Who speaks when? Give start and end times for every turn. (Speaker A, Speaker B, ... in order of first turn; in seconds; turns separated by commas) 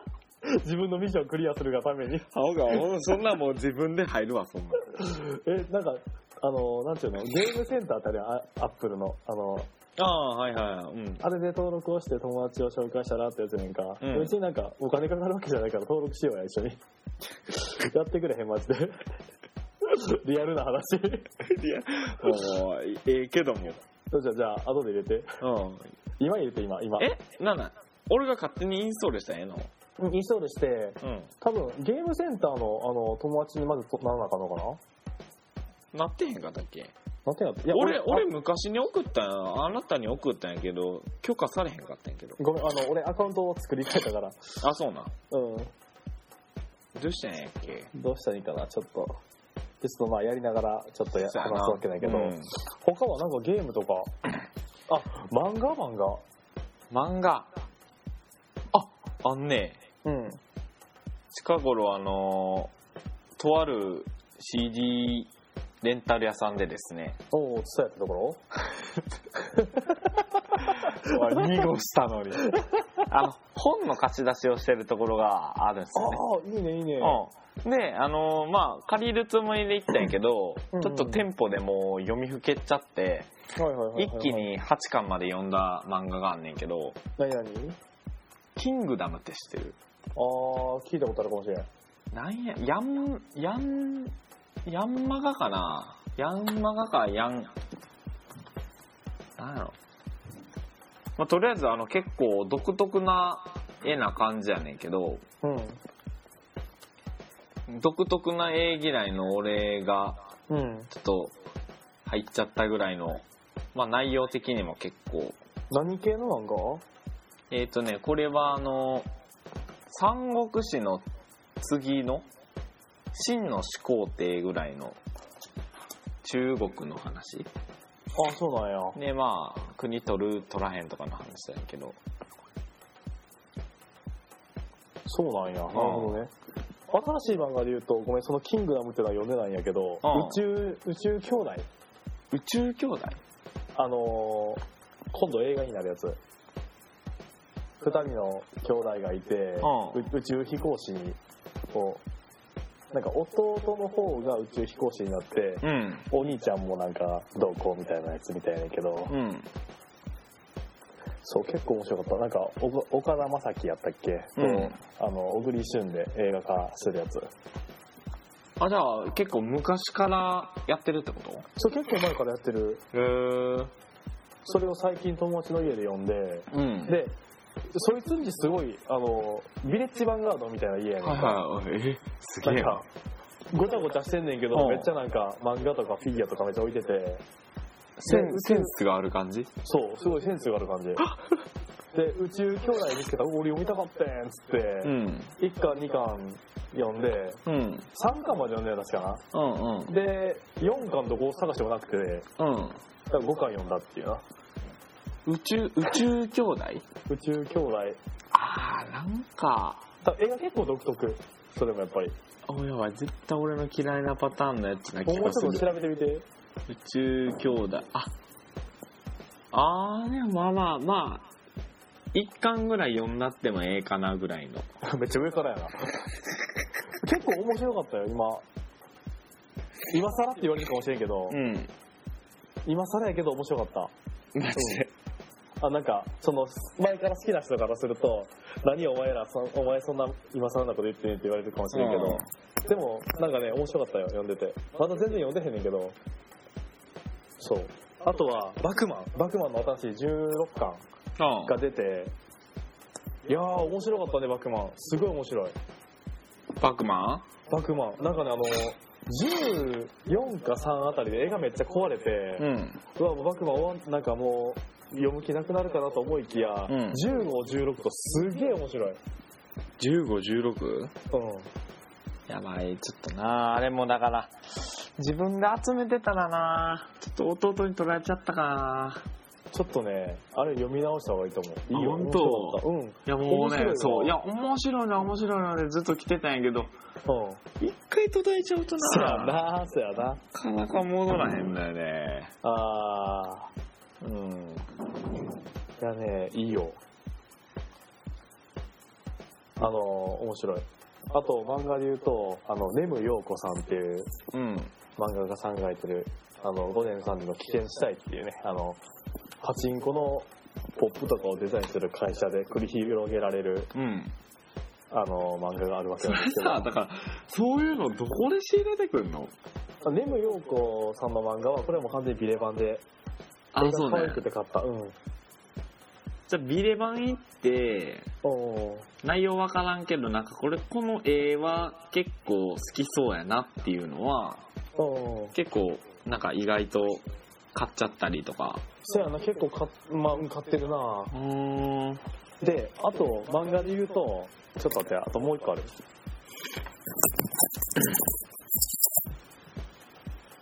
Speaker A: 0.4-2.3, Speaker B: 2.3-5.0, Speaker A: 5.0-9.7, Speaker B: 10.0-11.2, Speaker A: 11.2-16.8, Speaker B: 14.0-14.3, Speaker A: 17.5-19.0, Speaker A: 19.8-21.3, Speaker B: 21.4-23.8, Speaker A: 24.1-25.4, Speaker B: 25.4-25.9, Speaker A: 26.2-27.1, Speaker B: 27.0-29.7, Speaker A: 30.0-34.8, Speaker B: 31.0-31.3, Speaker B: 35.9-36.9, Speaker A: 37.3-38.3, Speaker B: 37.7-42.4, Speaker A: 42.4-44.4, Speaker B: 44.6-45.1, Speaker A: 45.3-45.7, Speaker B: 47.0-47.9, Speaker A: 47.9-49.2, Speaker A: 49.8-54.1, Speaker B: 51.2-52.5, Speaker A: 54.9-56.2, Speaker B: 56.9-57.5, Speaker B: 58.7-59.8, Speaker A: 60.0-60.4, Speaker B: 61.3-62.7, Speaker B: 63.4-65.3, Speaker B: 65.8-67.2, Speaker A: 67.3-68.4, Speaker A: 69.4-71.5, Speaker B: 70.7-72.5, Speaker A: 72.5-73.0, Speaker B: 73.1-76.2, Speaker A: 76.0-77.2, Speaker B: 77.0-83.3, Speaker A: 80.7-81.3, Speaker A: 83.6-84.5, Speaker B: 84.0-87.0, Speaker A: 87.2-87.8, Speaker B: 88.6-89.8, Speaker A: 90.2-91.7, Speaker B: 92.1-94.2, Speaker B: 94.7-97.5, Speaker B: 99.4-99.8, Speaker B: 101.2-105.2, Speaker A: 105.4-105.8, Speaker B: 107.7-110.2, Speaker A: 110.5-110.9, Speaker B: 110.9-111.3, Speaker B: 112.1-115.4, Speaker A: 115.7-116.8, Speaker B: 117.5-119.1, Speaker B: 119.9-121.1, Speaker B: 121.6-122.3, Speaker B: 123.1-125.0, Speaker B: 126.2-127.5, Speaker A: 128.2-129.0, Speaker B: 128.9-132.0, Speaker A: 135.1-136.3, Speaker B: 135.7-136.2, Speaker A: 136.9-141.7, Speaker B: 140.0-140.4, Speaker B: 142.3-143.2, Speaker A: 143.8-146.2, Speaker A: 147.8-151.2, Speaker B: 149.6-150.1, Speaker A: 151.7-152.0, Speaker A: 152.9-159.2, Speaker B: 155.6-156.1, Speaker B: 159.1-159.5, Speaker A: 161.2-167.3, Speaker B: 164.4-164.8, Speaker B: 168.6-171.5, Speaker A: 171.6-172.8, Speaker B: 172.9-173.7, Speaker A: 174.5-177.2, Speaker B: 176.5-177.0, Speaker A: 177.7-181.4, Speaker B: 181.0-182.8, Speaker A: 182.4-182.9, Speaker A: 183.5-187.2, Speaker B: 184.5-184.9, Speaker B: 188.0-189.5, Speaker A: 188.1-188.8, Speaker A: 189.6-191.1, Speaker A: 191.9-199.2, Speaker B: 194.8-195.3, Speaker B: 197.5-197.9, Speaker B: 199.3-199.9, Speaker A: 199.9-202.3, Speaker B: 202.4-202.8, Speaker A: 203.1-204.2, Speaker B: 205.3-206.8, Speaker A: 207.1-208.0, Speaker B: 208.3-209.9, Speaker A: 210.0-212.2, Speaker B: 212.5-215.8, Speaker A: 215.1-216.3, Speaker B: 216.7-218.1, Speaker B: 219.5-221.3, Speaker B: 222.1-224.7, Speaker A: 224.8-226.0, Speaker A: 227.0-228.4, Speaker A: 229.9-231.4, Speaker B: 231.3-231.7, Speaker A: 232.7-233.9, Speaker B: 234.3-234.9, Speaker A: 234.5-234.9, Speaker A: 235.6-246.0, Speaker B: 241.7-242.3, Speaker A: 247.4-250.8, Speaker B: 251.2-251.6, Speaker A: 251.4-252.1, Speaker A: 253.3-255.6, Speaker B: 256.6-257.3, Speaker A: 257.5-269.0, Speaker B: 262.4-262.8, Speaker B: 266.7-267.0, Speaker B: 269.8-270.9, Speaker A: 271.1-271.5, Speaker B: 272.3-279.0, Speaker A: 279.5-284.2, Speaker B: 281.7-286.7, Speaker A: 287.1-287.4, Speaker B: 287.6-289.4, Speaker A: 288.8-290.2, Speaker B: 290.3-292.3, Speaker A: 292.4-293.5, Speaker B: 294.0-294.7, Speaker A: 295.8-296.8, Speaker A: 299.6-304.1, Speaker B: 304.3-304.7, Speaker A: 305.0-308.8, Speaker A: 309.4-313.7, Speaker B: 313.7-314.1, Speaker A: 314.9-316.7, Speaker B: 316.0-319.3, Speaker A: 319.9-322.8, Speaker B: 323.5-324.2, Speaker A: 323.6-325.0, Speaker B: 326.3-328.1, Speaker A: 328.2-328.9, Speaker B: 329.0-334.4, Speaker A: 334.8-335.4, Speaker B: 335.3-338.7, Speaker A: 338.8-341.1, Speaker B: 341.1-342.0, Speaker A: 342.4-345.7